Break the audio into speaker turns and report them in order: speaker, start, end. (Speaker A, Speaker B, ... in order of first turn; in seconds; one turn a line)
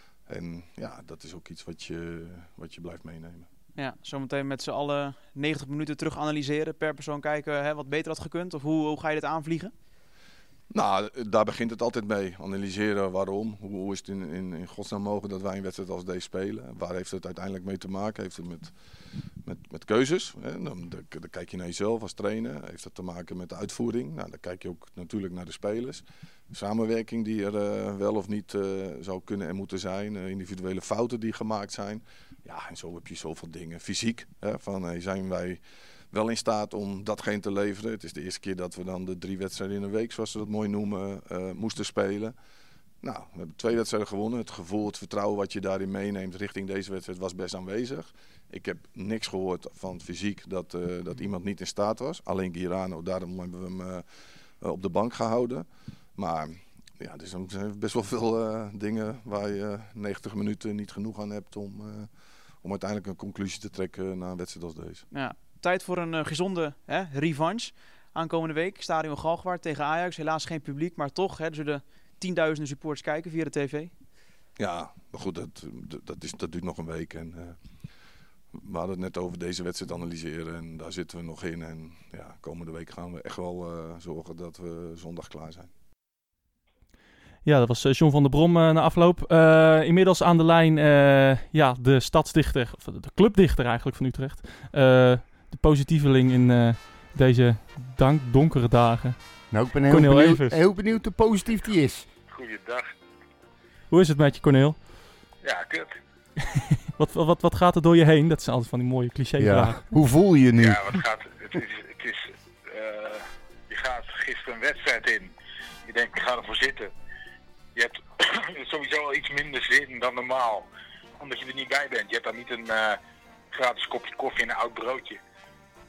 Speaker A: 0.1-3.5
Speaker B: 3.7-9.7
Speaker A: 10.7-42.3
Speaker A: 43.0-65.1
Speaker B: 65.1-73.9
Speaker A: 74.6-77.8
Speaker A: 78.5-85.7
Speaker C: 87.4-100.6
Speaker D: 99.5-102.1
Speaker E: 102.3-102.9
Speaker C: 103.9-104.8
Speaker E: 105.4-106.0
Speaker C: 106.9-109.8
Speaker D: 109.4-110.8
Speaker E: 110.6-115.3
Speaker E: 115.8-116.9
Speaker E: 117.7-123.0
Speaker E: 123.5-125.2